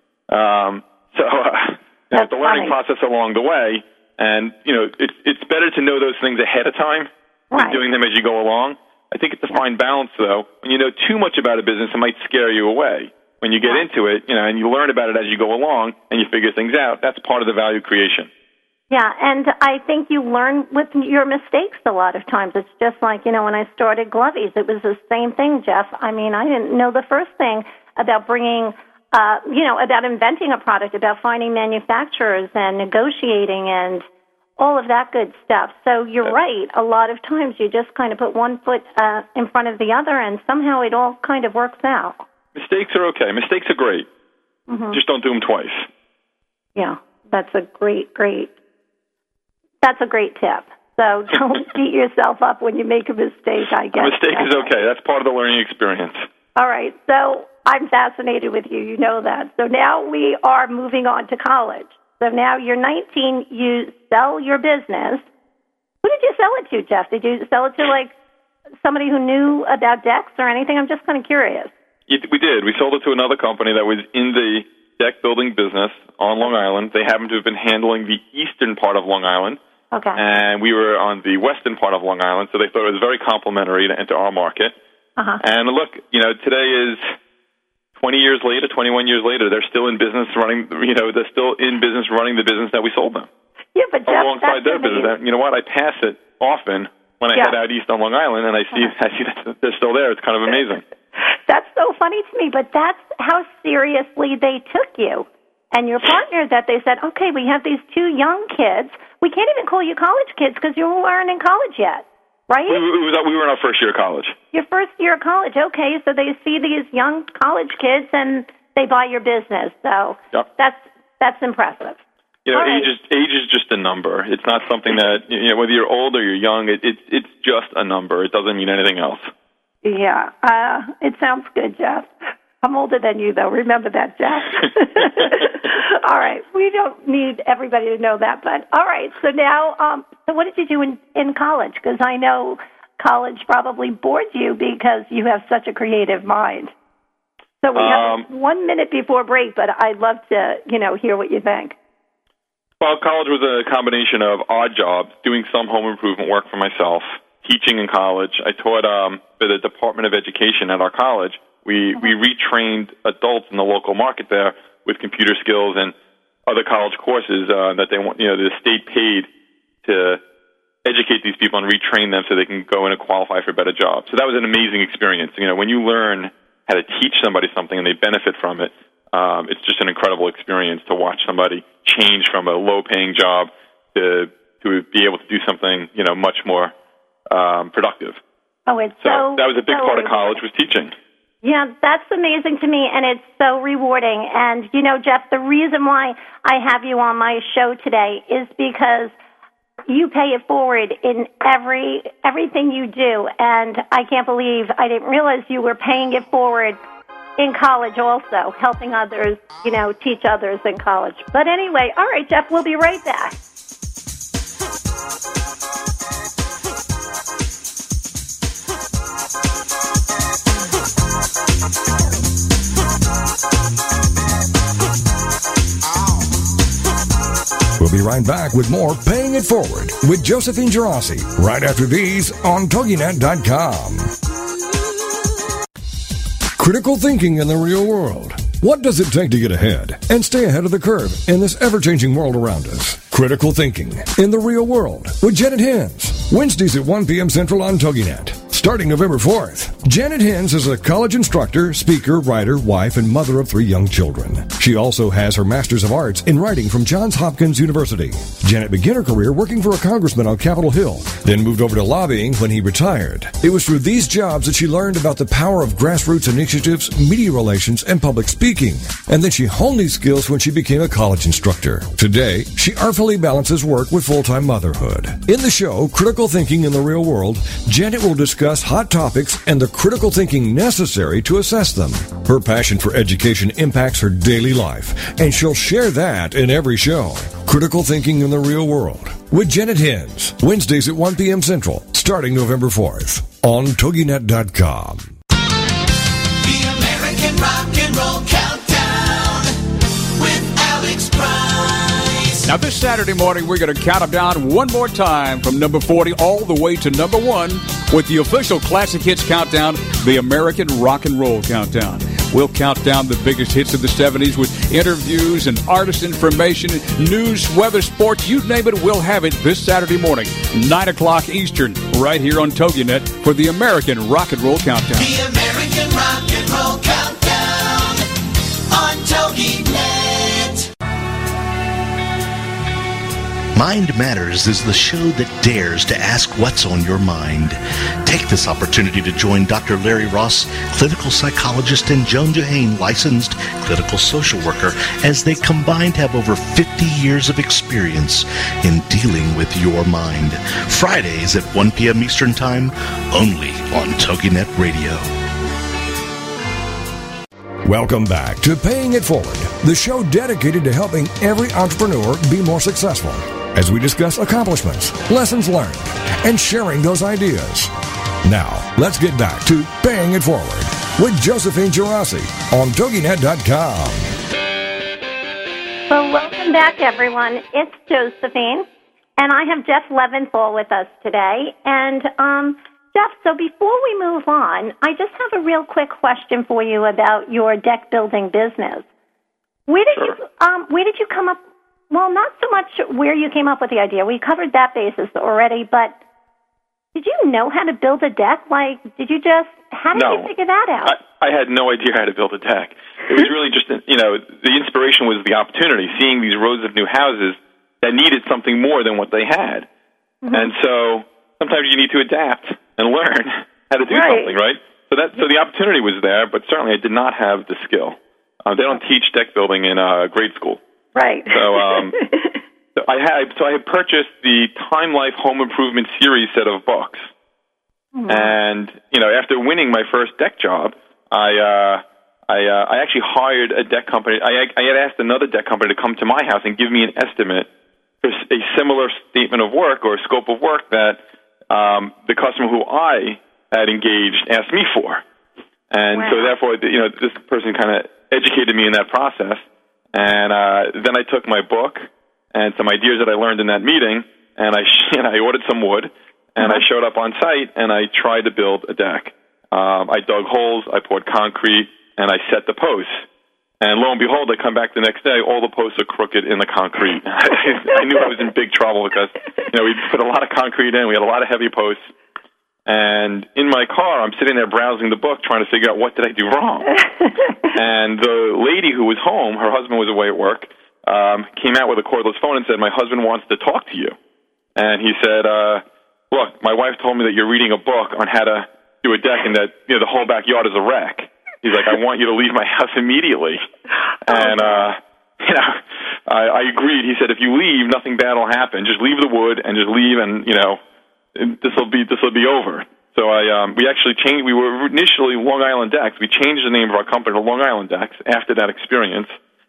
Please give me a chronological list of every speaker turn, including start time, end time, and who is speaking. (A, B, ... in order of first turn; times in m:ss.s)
0:00.3-0:18.3 A
0:02.1-0:02.7 B
0:07.5-0:07.8 B
0:18.9-0:34.0 B
0:34.6-0:42.2 B
0:42.5-0:44.1 A
0:44.7-0:45.0 B
0:44.9-0:45.9 A
0:46.8-0:48.5 B
0:49.8-0:54.7 B
0:53.9-0:56.2 A
0:56.6-1:05.2 B
1:06.0-1:08.1 B
1:08.8-1:11.7 B
1:12.1-1:19.6 A
1:19.9-1:20.2 B
1:20.2-1:24.7 A
1:25.4-1:27.0 A
1:28.0-1:33.3 A
1:33.7-1:35.1 B
1:34.1-1:40.8 A
1:41.2-1:52.8 B
1:52.7-1:54.4 A
1:54.5-2:02.0 B
2:02.4-2:09.3 A
2:02.5-2:02.9 B
2:09.8-2:12.1 B
2:12.6-2:26.7 B
2:27.6-2:31.7 B
2:27.7-2:28.2 A
2:32.8-2:45.9 A
2:46.5-2:49.3 A
2:49.8-2:50.2 A
2:50.8-3:06.7 A
3:07.3-3:08.2 A
3:08.7-3:10.4 B
3:09.0-3:10.9 A
3:11.4-3:19.1 B
3:19.9-3:26.8 B
3:27.4-3:33.4 B
3:47.8-3:54.1 C
3:56.6-4:55.1 C
4:56.4-4:59.5 D
5:00.1-5:02.5 D
5:02.5-5:25.1 E
5:24.9-5:28.0 D
5:28.7-5:30.6 D
5:33.5-5:55.1 F
5:57.6-6:07.7 C
6:08.2-6:14.1 C
6:15.9-6:18.6 B
6:19.2-6:28.8 B
6:29.7-6:35.9 B
6:36.9-6:40.9 B
6:39.9-6:40.3 A
6:40.8-6:49.7 A
6:50.2-6:50.5 B
6:50.3-7:00.6 A
6:53.9-6:54.3 B
7:00.9-7:02.4 B
7:01.3-7:02.0 A
7:02.8-7:07.1 A
7:07.9-7:08.3 B
7:08.1-7:17.5 A
7:18.0-7:25.0 A
7:25.7-7:29.4 A
7:25.9-7:26.3 B
7:29.9-7:43.0 A
7:43.6-7:51.8 A
7:52.6-7:56.8 A
7:57.4-8:03.9 A
8:04.6-8:13.4 A
8:14.0-8:20.6 A
8:21.1-8:29.1 A